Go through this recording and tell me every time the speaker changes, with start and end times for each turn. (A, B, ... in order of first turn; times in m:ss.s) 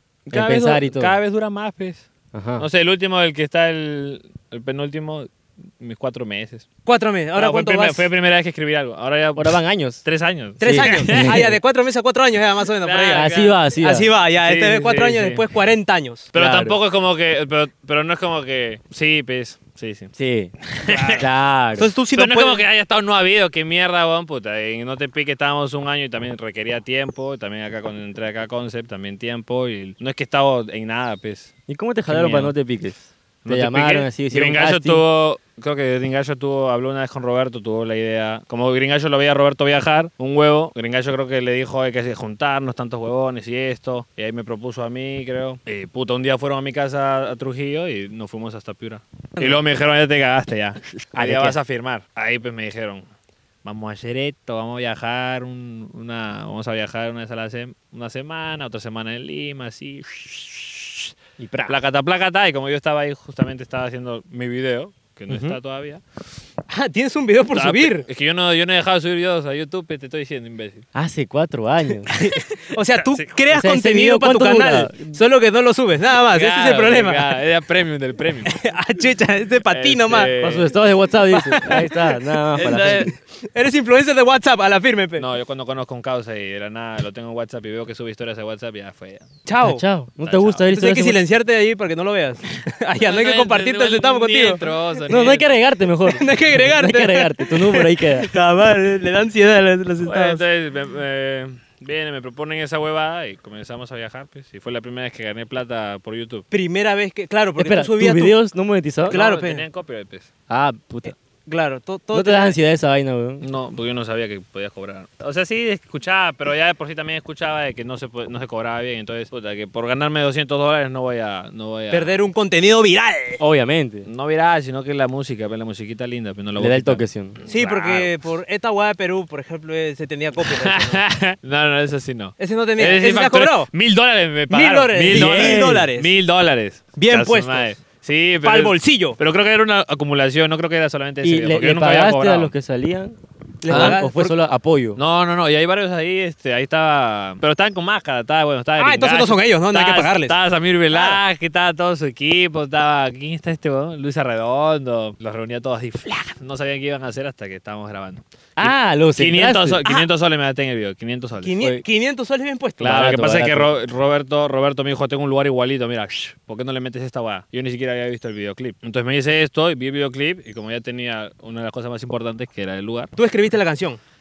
0:00.3-0:06.6 A
0:00.3-0:01.1 B
0:02.3-0:02.6 B
0:06.8-0:08.0 C
0:07.3-0:11.4 A
0:09.4-0:10.0 B
0:10.6-0:11.5 B
0:10.6-0:16.3 C
0:12.8-0:13.6 A
0:13.1-0:14.1 B
0:14.4-0:15.4 A
0:16.3-0:20.1 A
0:16.3-0:16.8 B
0:20.2-0:20.5 B
0:20.6-0:21.2 A
0:20.9-0:22.6 C
0:21.2-0:21.9 B
0:22.1-0:31.5 A
0:31.7-0:35.0 B
0:32.1-0:32.5 A
0:33.4-0:53.0 A
0:51.1-0:51.6 B
0:53.6-1:01.1 A
1:01.4-1:01.8 B
1:01.7-1:06.0 A
1:05.3-1:05.6 B
1:06.7-1:08.0 C
1:07.5-1:10.8 A
1:10.9-1:12.1 B
1:12.1-1:12.4 A
1:12.2-1:17.3 C
1:13.0-1:13.3 A
1:13.5-1:15.2 B
1:16.3-1:18.6 A
1:18.4-1:20.3 C
1:19.7-1:20.7 A
1:20.4-1:23.1 B
1:21.3-1:25.2 C
1:22.6-1:23.0 A
1:25.2-1:29.3 A
1:29.4-1:29.8 C
1:29.6-1:31.2 B
1:30.2-1:30.6 A
1:30.7-1:34.6 C
1:33.0-1:35.4 A
1:35.1-1:38.3 B
1:36.1-1:40.4 C
1:40.0-1:46.4 A
1:46.5-1:48.3 C
1:47.6-1:49.2 B
1:49.1-1:49.6 C
1:49.1-1:50.3 A
1:50.5-1:51.1 B
1:51.5-1:52.6 C
1:52.1-1:53.4 B
1:53.4-2:02.2 A
2:01.9-2:03.4 C
2:03.4-2:04.1 B
2:04.0-2:08.1 A
2:06.6-2:07.4 B
2:07.5-2:11.0 C
2:10.4-2:22.5 A
2:12.4-2:13.7 C
2:14.5-2:16.1 C
2:15.1-2:15.9 B
2:17.0-2:17.7 C
2:18.4-2:19.2 C
2:21.2-2:25.0 B
2:23.6-2:24.3 C
2:23.7-2:24.0 A
2:25.0-2:41.6 A
2:28.8-2:30.4 C
2:30.9-2:31.2 C
2:38.6-2:39.8 B
2:41.4-2:43.0 C
2:42.8-2:53.1 A
2:42.8-2:43.7 B
2:53.2-2:54.0 C